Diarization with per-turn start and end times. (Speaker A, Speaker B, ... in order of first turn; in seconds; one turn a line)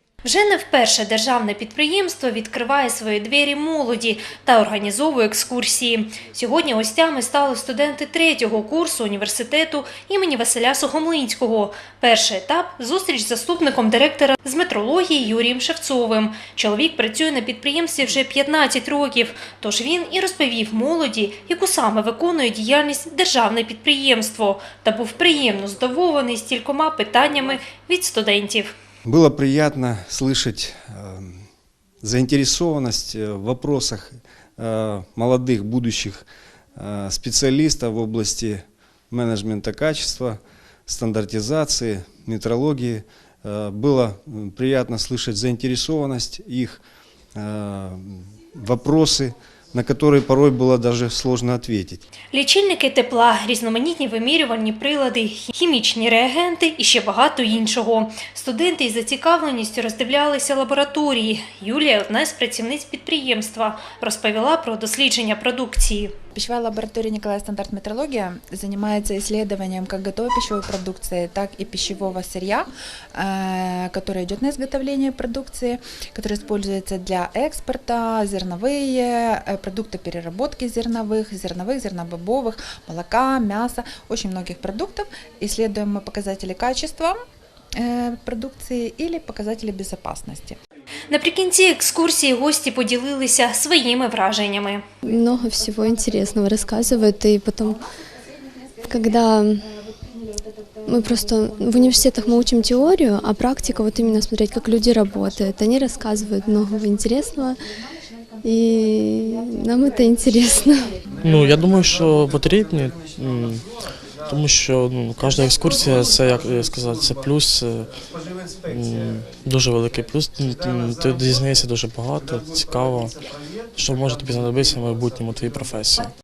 Speaker A: 0.2-28.7
Speaker B: 29.1-31.4
Speaker B: 32.0-36.3
Speaker B: 36.8-46.8
Speaker B: 47.4-52.0
Speaker A: 52.3-66.1
Speaker C: 66.3-87.2
Speaker C: 87.8-90.6
Speaker A: 91.1-94.8
Speaker D: 95.0-97.8
Speaker D: 98.8-99.7
Speaker D: 100.9-107.6
Speaker D: 108.4-111.1
Speaker C: 110.3-110.6
Speaker E: 111.2-113.7
Speaker B: 111.2-113.6
Speaker E: 114.3-117.9
Speaker B: 115.3-117.1
Speaker B: 118.0-119.2
Speaker E: 118.7-123.2
Speaker B: 120.5-121.6
Speaker B: 122.4-123.6
Speaker E: 123.8-126.1
Speaker B: 124.6-125.0